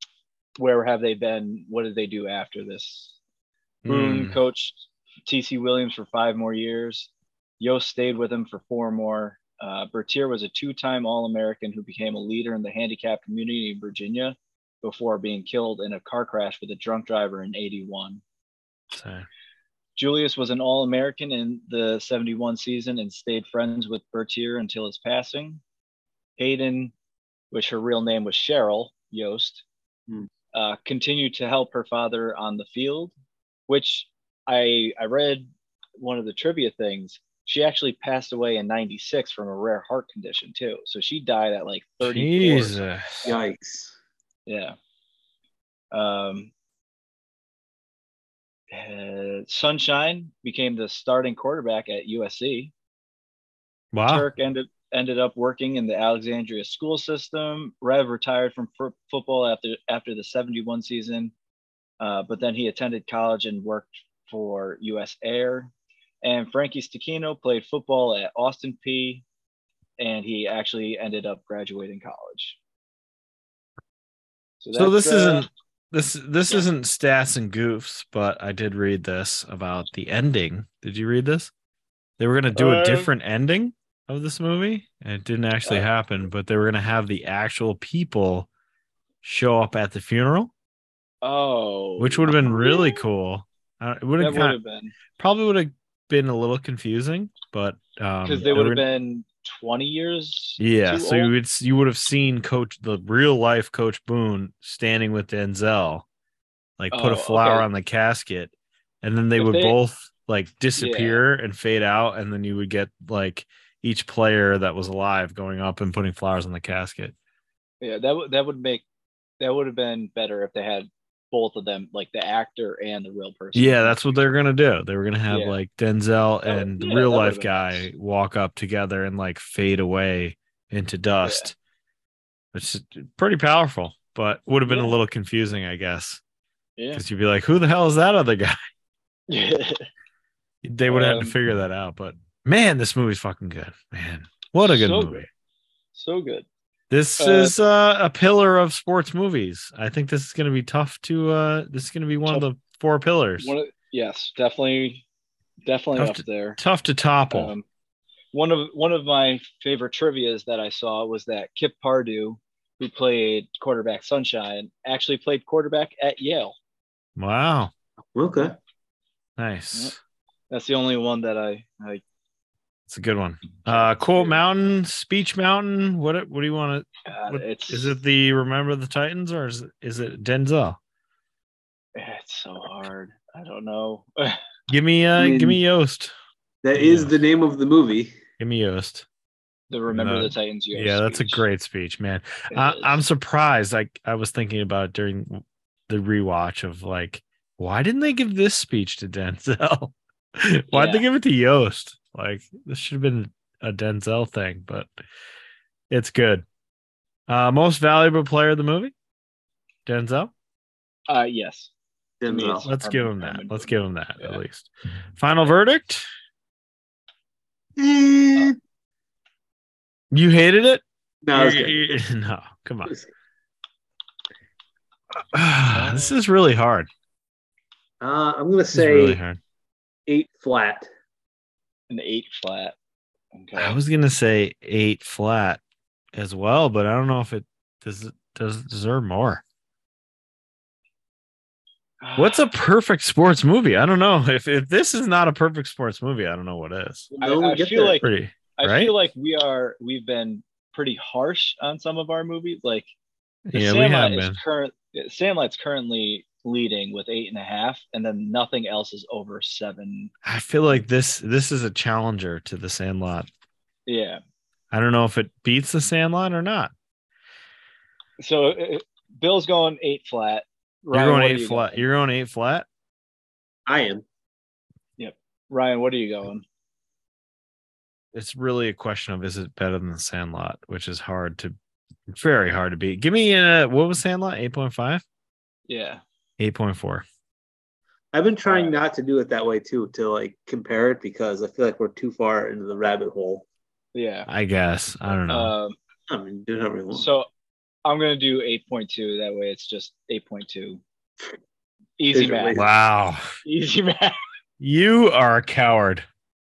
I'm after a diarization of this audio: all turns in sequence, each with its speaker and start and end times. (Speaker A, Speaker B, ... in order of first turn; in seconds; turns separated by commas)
Speaker A: 0.6-3.2, Speaker A: 3.8-7.1, Speaker B: 3.9-4.4, Speaker A: 7.6-18.2, Speaker B: 18.9-19.2, Speaker A: 20.0-25.6, Speaker A: 26.4-26.9, Speaker A: 27.5-29.6, Speaker A: 30.5-33.1, Speaker A: 33.7-43.4, Speaker B: 42.0-43.3, Speaker C: 43.2-44.0, Speaker A: 44.5-44.8, Speaker A: 45.9-46.5, Speaker A: 48.7-52.7, Speaker B: 53.9-54.3, Speaker A: 54.1-61.3, Speaker A: 62.0-69.2, Speaker A: 70.0-72.6, Speaker A: 74.6-75.5, Speaker B: 74.7-81.5, Speaker B: 82.2-88.5, Speaker A: 82.5-83.1, Speaker B: 89.2-90.5, Speaker A: 91.2-93.0, Speaker B: 92.0-94.6, Speaker A: 94.2-95.0, Speaker B: 95.1-98.8, Speaker A: 98.2-101.3, Speaker B: 100.6-106.0, Speaker B: 106.8-117.1, Speaker A: 106.9-107.7, Speaker A: 109.4-109.8, Speaker A: 110.8-111.2, Speaker A: 117.8-118.8, Speaker A: 119.4-124.2, Speaker B: 123.5-131.5, Speaker A: 125.3-125.6, Speaker A: 126.5-127.9, Speaker A: 131.2-131.5, Speaker B: 132.5-136.2, Speaker A: 134.7-134.9, Speaker A: 136.8-137.0, Speaker B: 136.9-138.6, Speaker A: 139.3-139.9, Speaker B: 140.6-145.3, Speaker A: 140.9-141.3, Speaker A: 144.6-145.2, Speaker A: 145.9-146.5, Speaker B: 146.9-153.5, Speaker A: 147.2-147.5, Speaker A: 153.4-155.0, Speaker A: 155.6-156.6, Speaker B: 155.9-157.5, Speaker A: 157.3-157.6, Speaker A: 158.3-166.5, Speaker B: 167.2-167.7, Speaker C: 168.1-168.6, Speaker B: 169.4-170.0, Speaker A: 170.5-172.0, Speaker B: 172.9-180.8, Speaker A: 173.7-174.4, Speaker A: 177.1-177.9, Speaker A: 181.9-184.4, Speaker B: 184.7-186.1, Speaker C: 185.2-185.6, Speaker C: 186.6-188.2, Speaker B: 186.7-187.2, Speaker B: 188.4-189.1, Speaker A: 189.7-191.4, Speaker B: 189.9-204.9, Speaker A: 192.5-193.0, Speaker A: 200.7-201.0, Speaker B: 205.9-206.4, Speaker B: 207.3-208.9, Speaker B: 209.8-210.3, Speaker A: 211.1-211.7, Speaker C: 212.2-212.7, Speaker A: 212.2-214.4, Speaker B: 212.6-216.0, Speaker C: 217.8-218.6, Speaker B: 220.1-220.8, Speaker C: 221.2-222.0, Speaker B: 221.3-222.9, Speaker B: 225.3-226.9, Speaker A: 225.7-226.1, Speaker C: 228.0-229.2, Speaker B: 228.7-229.4, Speaker C: 230.1-230.9, Speaker A: 231.9-232.7, Speaker A: 233.3-233.8, Speaker B: 233.6-235.6, Speaker B: 236.1-239.4, Speaker A: 242.0-242.5, Speaker B: 242.2-247.1, Speaker C: 247.1-248.0, Speaker A: 247.2-248.1, Speaker B: 248.0-248.9, Speaker A: 248.6-252.9, Speaker B: 253.5-254.4, Speaker A: 253.5-260.1, Speaker B: 260.2-263.3, Speaker A: 263.9-264.2, Speaker B: 264.7-266.7, Speaker A: 268.2-271.8, Speaker B: 270.9-272.6, Speaker C: 273.6-274.0, Speaker A: 275.0-276.4, Speaker B: 278.1-281.5, Speaker B: 282.1-285.0, Speaker A: 285.7-286.0, Speaker B: 286.4-287.0, Speaker C: 288.1-293.4, Speaker A: 288.4-288.7, Speaker A: 293.9-294.3, Speaker B: 294.3-295.5, Speaker A: 295.3-295.8, Speaker C: 296.1-297.1, Speaker A: 296.9-297.3, Speaker A: 297.8-300.8, Speaker A: 302.0-302.6, Speaker C: 302.1-302.7, Speaker B: 302.5-303.3, Speaker A: 303.4-304.2, Speaker B: 304.6-306.0